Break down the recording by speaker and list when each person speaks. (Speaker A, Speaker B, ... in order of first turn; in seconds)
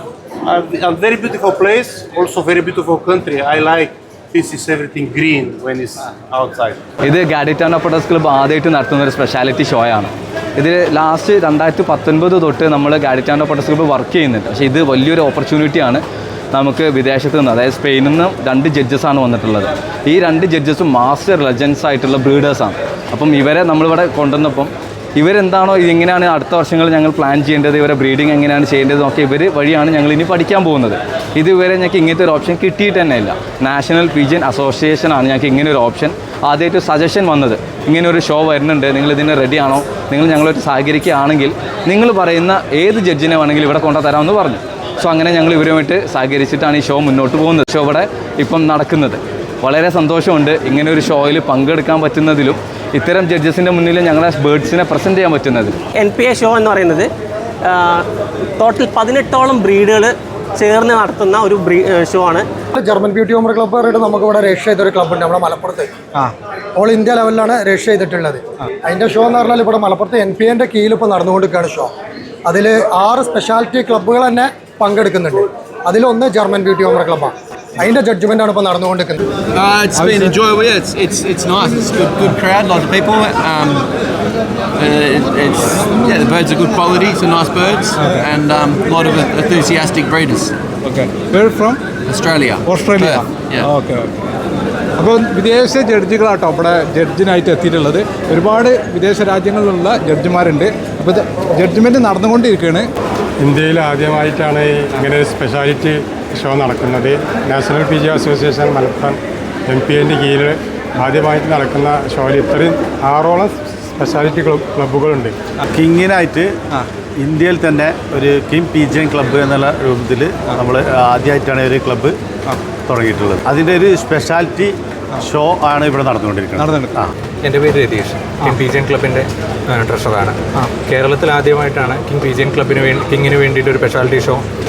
Speaker A: 0.4-6.8
Speaker B: 7.0-55.7
Speaker C: 55.9-57.1, 57.6-58.0, 58.6-62.5
Speaker D: 62.7-65.9, 66.8-71.9, 72.5-79.2
Speaker E: 79.5-83.9, 84.8-90.5, 92.0-93.7
Speaker F: 80.0-80.3, 88.0-88.3, 90.8-91.8, 92.6-94.2, 95.0-102.8, 126.6-126.9
Speaker G: 103.4-115.3
Speaker H: 115.7-116.5, 117.2-122.2, 122.9-127.1
Speaker I: 127.4-134.4